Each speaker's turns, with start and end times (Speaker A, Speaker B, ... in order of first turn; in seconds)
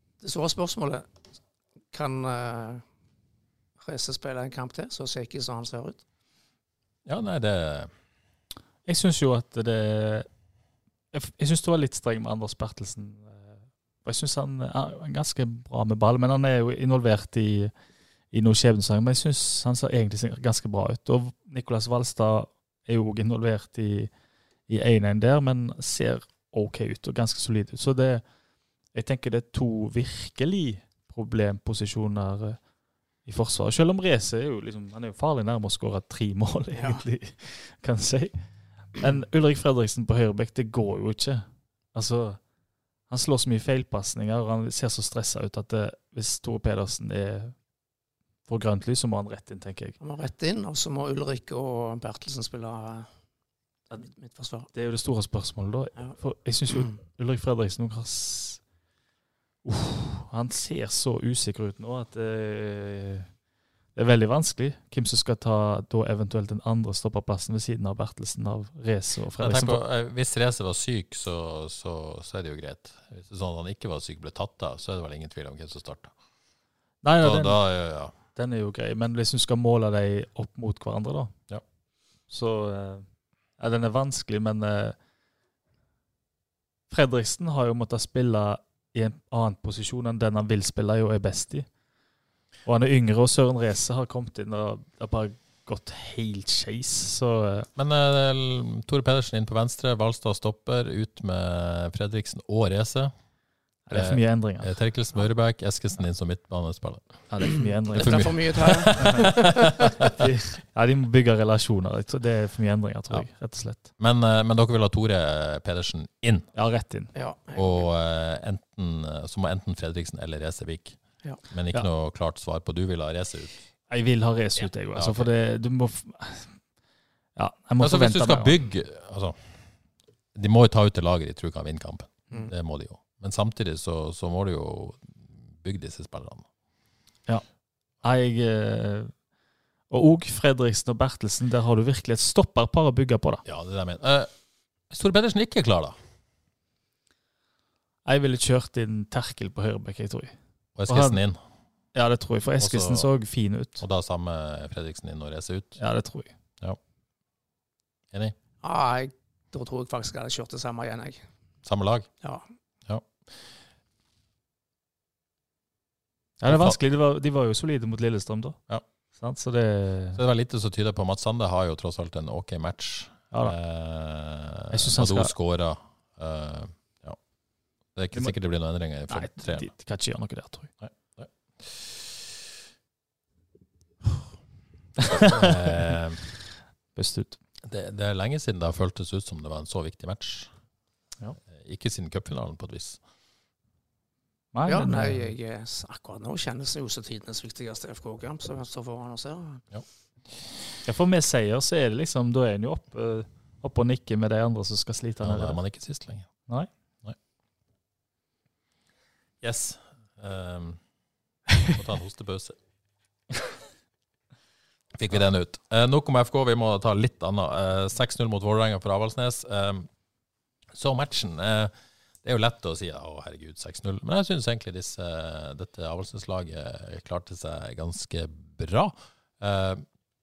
Speaker A: 0.2-1.1, 1.9-2.8, 3.8-6.0, 36.8-37.0, 50.0-53.1, 53.9-54.7, 107.9-110.0, 117.2-117.9, 158.6-161.3, 194.7-199.6
Speaker B: 7.1-7.9, 69.4-76.1, 77.2-78.1, 97.8-103.1, 103.9-107.4, 108.0-109.3, 114.0-116.5, 117.5-123.6, 124.9-125.3, 127.8-129.6, 130.3-136.5, 143.4-144.3, 144.9-146.0, 150.8-151.4, 152.6-153.1, 153.8-155.8, 161.7-162.1, 162.9-163.4, 166.5-166.8, 170.2-177.2, 177.9-179.7, 180.8-182.2, 185.2-186.2, 187.7-190.5, 191.5-193.0, 205.2-206.3, 209.4-210.8, 211.7-212.6, 215.0-219.9, 220.7-229.8
Speaker C: 8.9-10.3, 11.1-17.7, 18.3-24.1, 24.7-28.2, 28.9-32.6, 33.3-38.4, 39.0-42.4, 43.1-47.6, 48.5-50.0, 54.7-58.6, 59.6-63.3, 64.0-69.8, 77.0-77.6, 78.3-81.3, 82.3-83.1, 83.6-85.0, 86.9-91.7, 92.7-97.7, 103.9-104.7, 107.3-108.3, 110.2-113.9, 116.5-117.1, 123.9-126.5, 127.4-128.6, 138.0-139.1, 139.9-143.4, 148.1-150.3, 150.9-151.2, 151.9-153.8, 155.8-156.3, 166.4-168.6, 169.2-170.2, 174.7-175.3, 179.1-180.7, 185.0-185.5, 187.0-187.4, 194.5-195.3, 200.8-205.6